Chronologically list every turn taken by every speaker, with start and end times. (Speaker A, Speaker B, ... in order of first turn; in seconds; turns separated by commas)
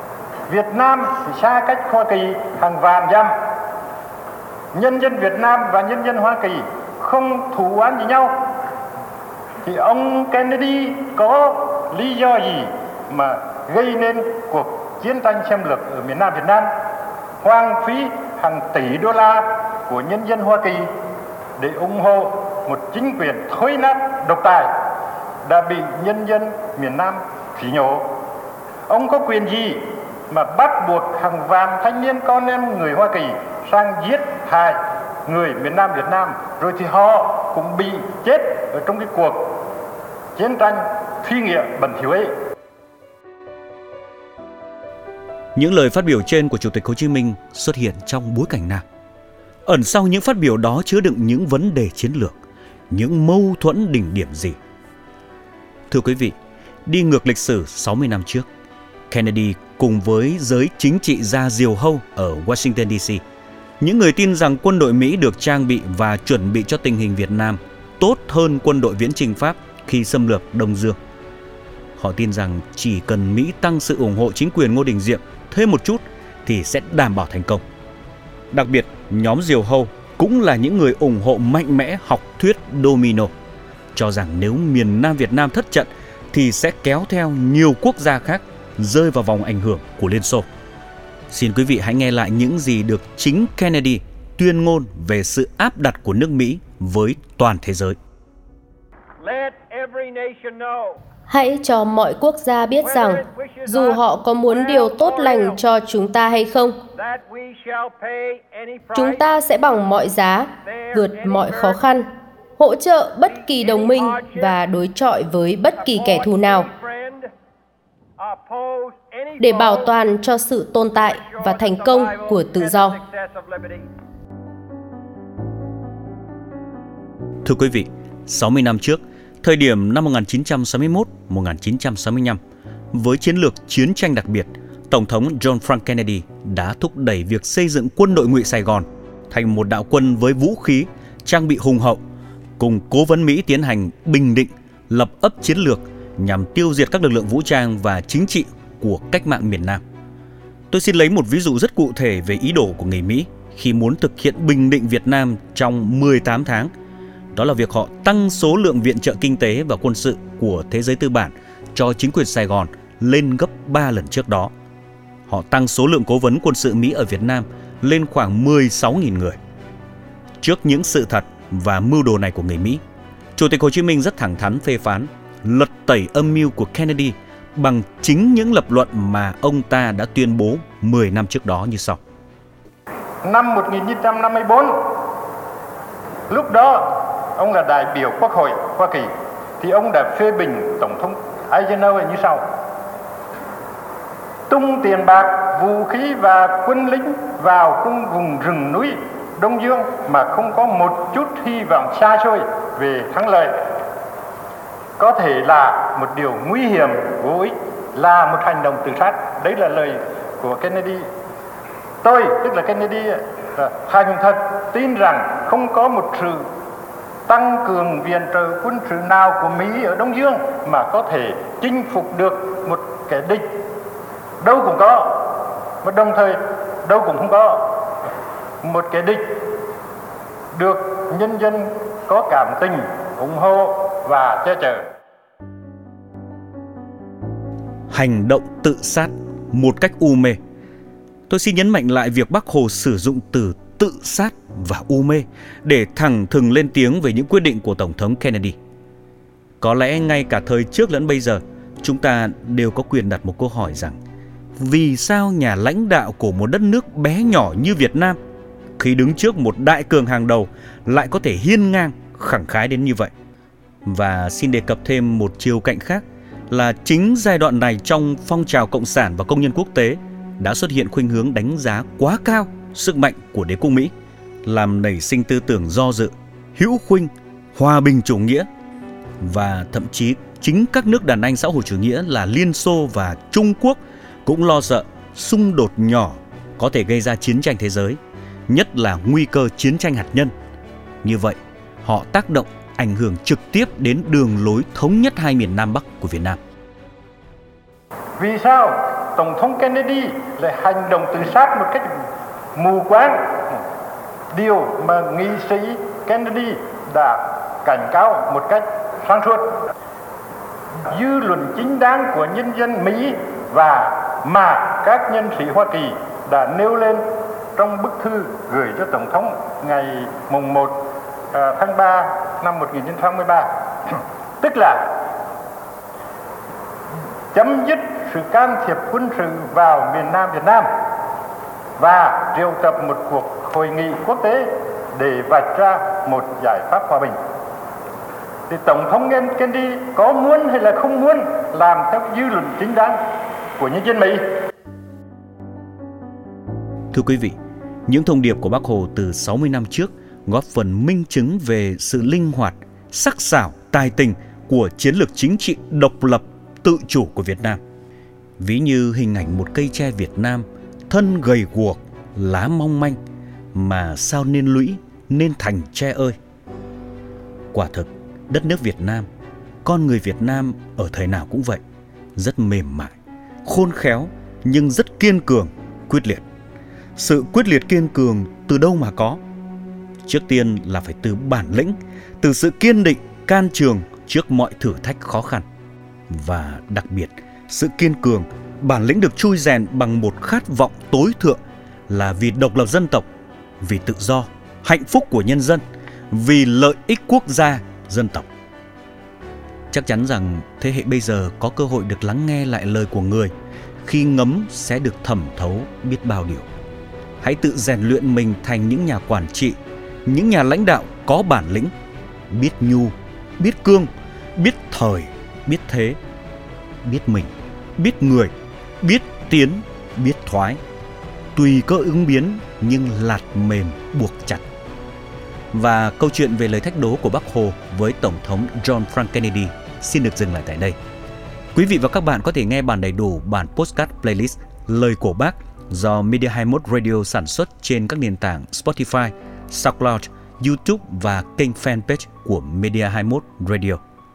Speaker A: 0.5-3.4, Speaker A: 4.7-8.4, Speaker A: 9.6-16.7, Speaker A: 17.4-20.9, Speaker A: 21.6-24.7, Speaker A: 25.4-28.1, Speaker A: 28.9-39.5, Speaker A: 40.3-42.3, Speaker B: 45.5-48.8, Speaker B: 49.6-52.4, Speaker B: 52.9-54.6, Speaker B: 55.9-56.4, Speaker B: 56.9-58.5, Speaker B: 59.1-63.2, Speaker B: 63.8-71.0, Speaker B: 72.0-77.6, Speaker B: 78.5-83.3, Speaker B: 83.9-90.5, Speaker B: 91.3-98.0, Speaker C: 99.2-101.0, Speaker D: 101.3-106.8, Speaker C: 102.8-105.6, Speaker C: 106.9-109.2, Speaker D: 108.9-112.1, Speaker C: 110.7-111.8, Speaker D: 112.6-116.7, Speaker C: 113.3-114.5, Speaker C: 115.8-117.3, Speaker C: 118.2-119.9, Speaker D: 119.4-123.0, Speaker C: 120.9-123.9, Speaker B: 127.4-132.4, Speaker B: 132.9-142.0, Speaker B: 142.6-149.8, Speaker B: 150.7-156.7, Speaker B: 157.3-164.5, Speaker B: 165.3-169.4, Speaker B: 170.4-172.8, Speaker B: 173.3-182.0, Speaker A: 183.2-184.9, Speaker A: 186.3-189.1, Speaker A: 189.6-192.4, Speaker A: 194.5-203.5, Speaker A: 205.0-211.1, Speaker A: 212.0-216.4, Speaker A: 217.3-223.4, Speaker A: 224.4-227.7, Speaker A: 228.6-229.3, Speaker A: 230.5-234.9, Speaker B: 237.9-240.4, Speaker B: 241.3-248.6, Speaker B: 249.6-254.0, Speaker B: 254.6-258.2, Speaker B: 258.8-263.1, Speaker B: 263.8-273.9, Speaker B: 274.4-278.5, Speaker B: 279.2-290.3, Speaker B: 291.0-296.4, Speaker A: 298.2-301.9, Speaker A: 302.6-303.4, Speaker A: 304.3-309.5, Speaker A: 310.9-317.0, Speaker A: 317.6-320.8, Speaker A: 321.3-324.9, Speaker A: 327.3-330.7, Speaker A: 331.8-337.2, Speaker A: 338.5-343.0, Speaker A: 343.6-344.2, Speaker B: 346.9-347.4, Speaker B: 347.9-357.6, Speaker B: 358.4-363.0, Speaker B: 363.5-366.2, Speaker B: 367.5-369.1, Speaker B: 369.6-371.6, Speaker B: 372.1-376.2, Speaker B: 377.0-379.2, Speaker B: 380.1-385.4, Speaker B: 386.1-393.1, Speaker B: 393.6-398.3, Speaker B: 399.7-406.4, Speaker B: 407.2-411.7, Speaker B: 412.3-416.0, Speaker B: 416.8-420.6, Speaker B: 421.4-424.4, Speaker B: 425.5-430.8, Speaker B: 431.5-443.8